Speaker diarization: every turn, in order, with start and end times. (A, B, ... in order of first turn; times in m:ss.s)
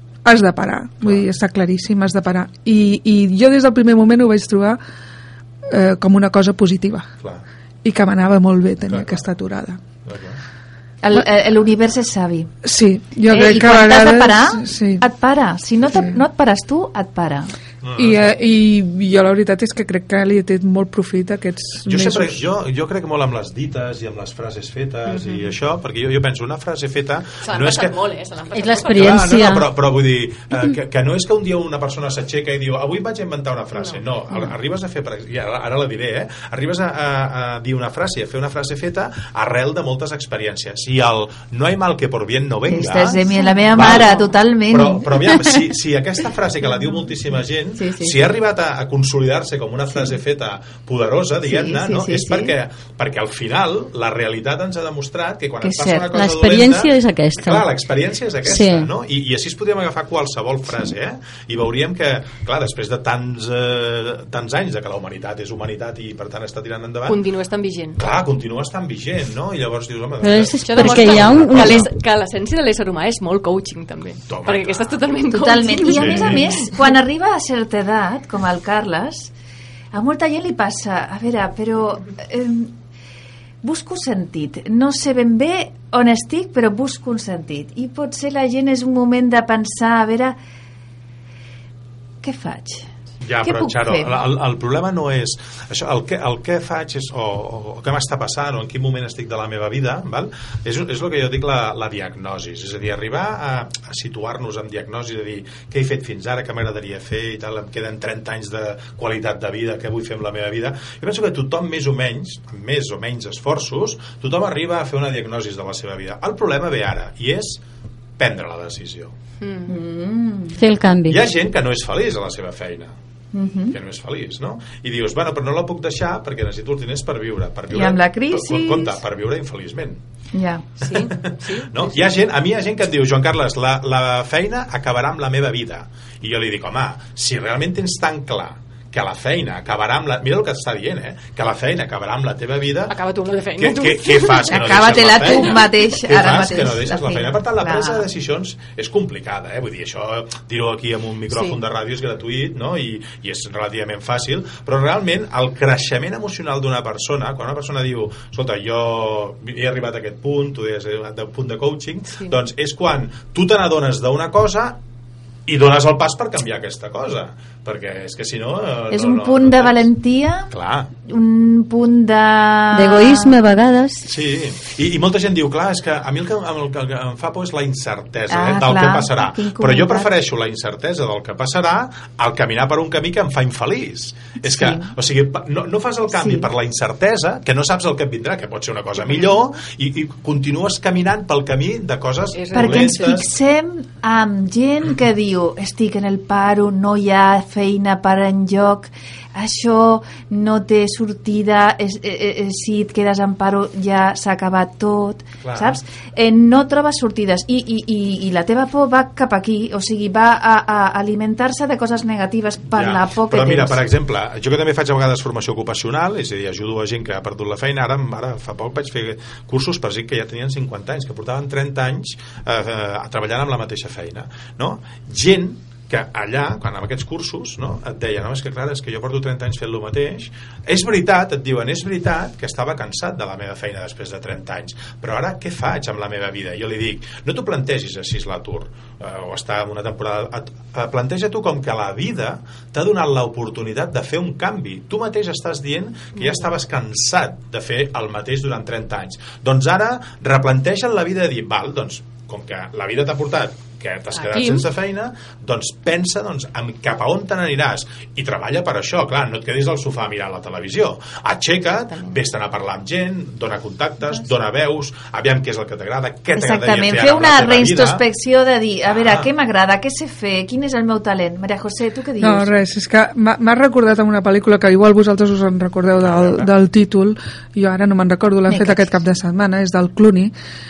0:00.2-0:04.8 A
0:01.0-0:01.3 B
0:05.7-0:07.0 A
0:07.8-0:09.8 A
0:08.9-0:09.2 B
0:10.0-0:10.4 B
0:11.0-0:12.5 C
0:12.6-0:15.0 A
0:13.3-0:17.5 C
0:17.8-0:18.3 B
0:18.0-0:22.4 A
0:21.8-0:28.0 B
0:27.4-0:29.2 D
0:28.5-0:29.7 E
0:28.8-0:43.2 B
0:42.6-0:45.7 C
0:43.7-1:07.2 B
0:47.8-0:48.2 C
0:51.4-0:52.5 C
0:55.6-0:56.1 C
0:56.1-0:57.7 E
0:58.4-0:58.9 E
1:07.0-1:08.0 D
1:08.0-1:11.9 B
1:10.2-1:11.9 E
1:10.6-1:16.5 D
1:14.3-1:15.1 B
1:15.3-1:19.3 C
1:15.9-1:16.5 B
1:19.9-1:22.7 C
1:23.6-1:30.3 C
1:32.2-1:32.9 C
1:33.2-1:57.6 B
1:33.4-1:34.1 C
1:58.2-1:59.1 B
1:59.4-1:59.8 D
1:59.7-2:00.6 C
2:00.6-2:01.2 E
2:01.1-2:02.9 B
2:03.3-2:03.8 C
2:03.7-2:10.0 B
2:07.7-2:09.0 C
2:10.3-2:10.7 C
2:10.8-2:12.2 D
2:10.9-2:23.0 B
2:22.9-2:24.5 D
2:23.6-2:44.8 B
2:24.5-2:28.0 C
2:31.3-2:31.6 D
2:45.4-2:49.9 B
2:48.9-2:50.5 C
2:50.5-2:50.9 B
2:51.1-2:53.3 C
2:52.7-2:54.0 E
2:54.0-3:13.3 B
2:58.3-3:00.1 C
3:04.4-3:04.9 C
3:06.1-3:06.5 C
3:09.0-3:09.3 D
3:12.3-3:13.2 D
3:12.5-3:33.8 C
3:25.4-3:25.8 B
3:32.6-4:28.0 B
4:06.2-4:06.4 D
4:14.1-4:14.6 D
4:26.4-4:32.6 C
4:28.8-4:29.3 B
4:32.2-4:40.3 A
4:36.0-4:36.5 B
4:38.5-4:39.0 C